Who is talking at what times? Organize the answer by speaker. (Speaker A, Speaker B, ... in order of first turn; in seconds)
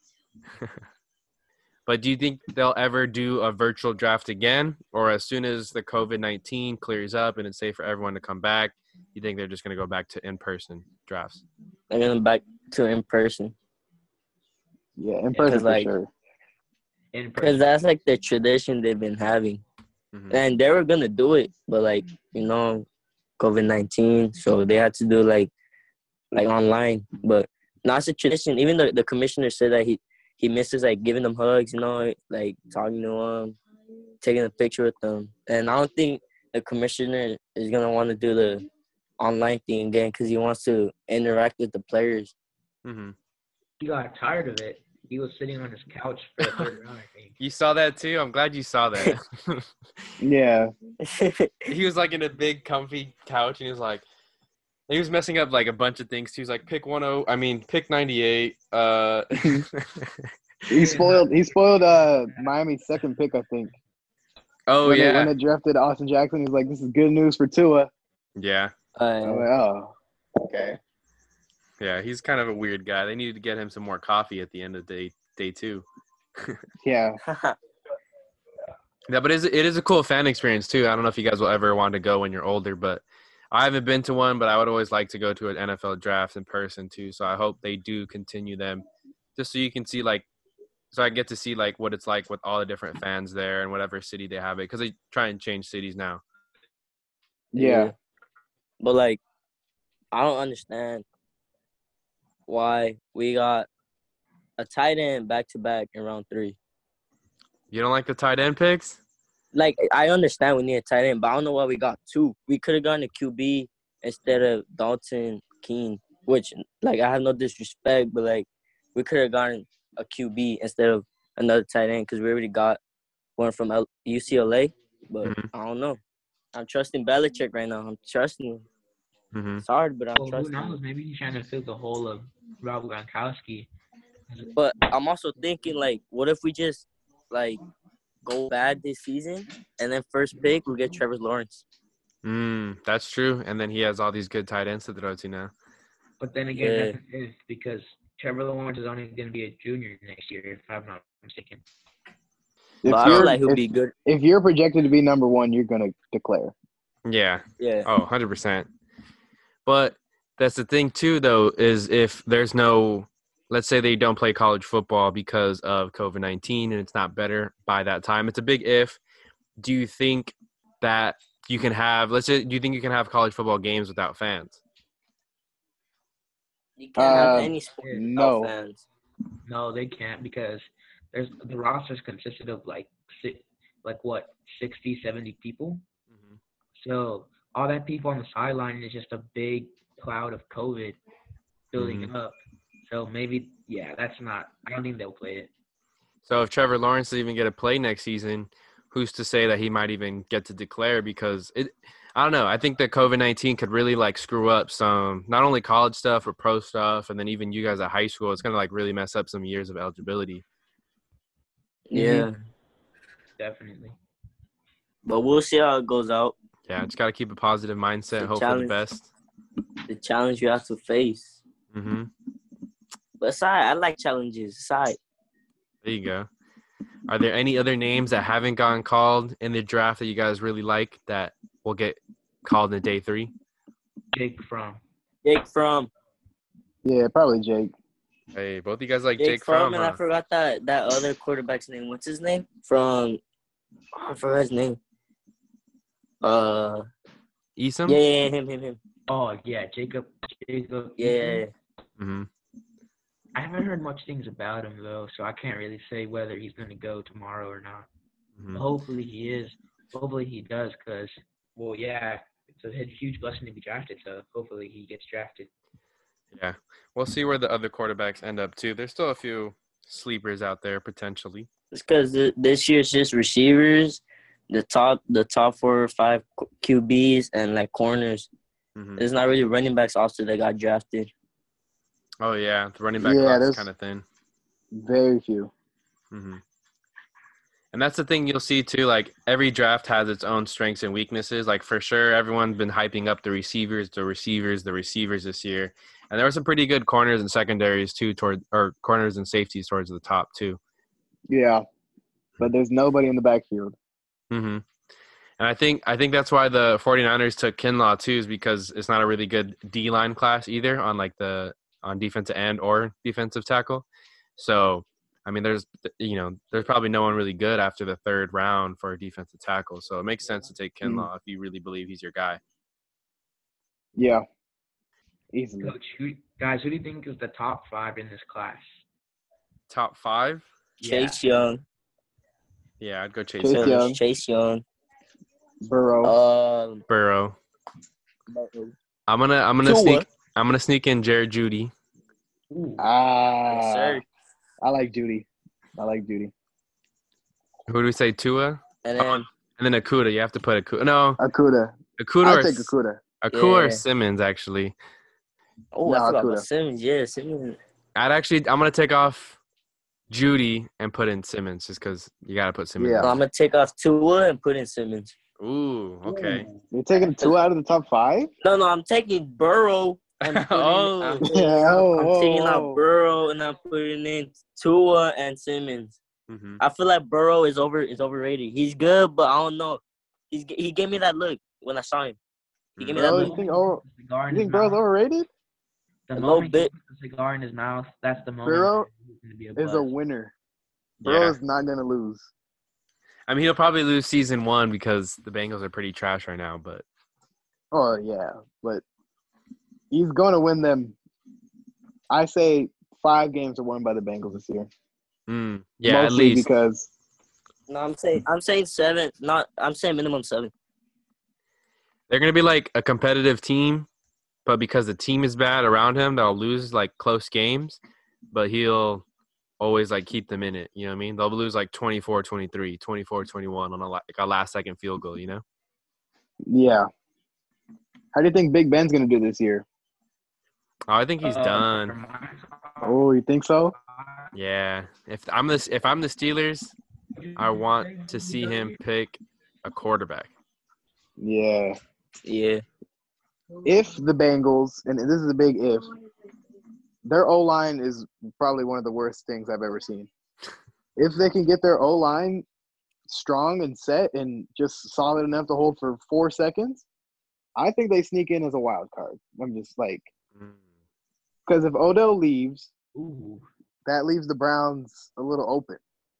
Speaker A: 1.9-11.4, 20.1-20.4, 42.9-43.2, 46.4-46.7, 47.4-49.8, 51.7-54.0, 54.9-61.0, 64.7-65.3, 68.4-68.7, 71.8-75.8, 76.4-76.6, 79.1-88.8, 89.4-90.3, 90.9-96.2, 107.7-109.0, 125.2-125.5, 129.3-129.6, 142.2-145.5, 157.1-158.7, 159.7-169.0, 169.6-174.6, 186.1-186.4, 191.8-192.1, 196.2-210.4, 216.7-219.1, 221.7-222.1, 225.8-226.3, 227.1-233.3, 238.3-240.0, 247.6-248.0, 252.0-252.3, 258.4-258.6, 266.3-271.5, 278.8-279.1, 282.2-284.1, 286.1-286.4, 287.7-300.6, 304.3-304.6, 305.4-313.9, 314.4-322.4, 329.7-330.5, 332.8-333.8, 336.9-337.4, 339.1-341.7, 347.7-351.2, 352.0-354.8, 358.0-359.4, 360.1-363.2, 365.4-366.5, 370.2-371.2, 376.3-376.6, 382.8-383.1, 391.0-391.4, 393.3-396.9, 405.3-406.5, 412.1-413.9, 414.4-417.8, 418.3-419.0, 419.6-425.4, 430.9-431.9, 434.3-436.8, 437.4-440.3
Speaker B: 11.9-13.6, 15.3-15.9, 17.4-19.6, 20.3-22.9, 23.4-25.5, 26.3-33.6, 34.2-38.7, 39.2-42.3, 51.0-51.7, 69.0-69.5, 77.2-77.6, 97.6-98.0, 98.8-99.2, 100.1-101.0, 102.5-103.7, 104.6-106.6, 109.5-122.8, 123.4-126.0, 126.5-128.7, 129.6-130.8, 134.6-137.6, 138.2-141.7, 146.6-147.0, 152.8-153.9, 157.6-157.9, 176.8-178.8, 211.9-212.3, 215.1-216.3, 218.2-218.8, 219.9-221.3, 223.2-225.0, 235.2-235.9, 239.2-243.2, 243.9-244.8, 246.2-246.9, 247.9-248.8, 251.0-251.5, 271.7-278.3, 279.0-281.1, 330.8-331.6, 333.5-334.6, 336.0-336.8, 339.6-340.0, 343.5-344.1, 348.8-349.3, 353.3-353.8, 355.7-357.6, 363.0-365.1, 368.4-376.0, 376.6-382.2, 382.8-383.4, 386.1-386.7, 407.7-410.5, 442.2-442.6
Speaker C: 15.0-16.1, 50.2-50.7, 60.7-63.7, 64.8-67.9, 69.2-70.8, 76.8-77.2, 97.5-97.9, 152.8-156.5, 177.0-178.5, 236.8-237.7, 283.0-283.7, 284.8-285.5, 301.3-301.6, 302.4-303.8, 320.8-321.1, 324.0-324.2, 325.3-325.8, 333.4-334.0, 335.7-336.2, 338.3-338.7, 342.8-344.0, 344.6-345.3, 345.8-346.3, 351.2-353.0, 355.9-356.5, 362.8-363.2, 366.7-368.3, 371.3-372.8, 382.9-385.3, 388.4-388.9, 389.6-390.3, 391.0-392.3, 397.7-398.8, 399.9-401.0, 402.1-404.7, 405.9-406.9, 426.5-426.9, 428.1-429.6, 432.8-433.8, 441.2-441.8, 443.6-445.9, 447.1-450.1, 451.0-452.5, 453.1-456.8, 457.6-460.1, 461.5-462.7, 463.9-465.8
Speaker D: 17.1-17.6, 43.8-47.4, 60.8-61.3, 130.2-133.7, 146.2-151.6, 177.1-178.1, 179.4-185.8, 186.8-191.0, 191.7-195.5, 211.9-212.3, 213.4-214.0, 234.1-234.8, 249.1-251.4, 253.3-257.9, 258.5-265.5, 325.6-328.8, 330.8-331.5, 342.5-342.8, 366.1-366.6, 383.0-384.8, 386.1-389.9, 431.2-433.0, 433.9-434.3, 437.2-438.7, 462.9-463.5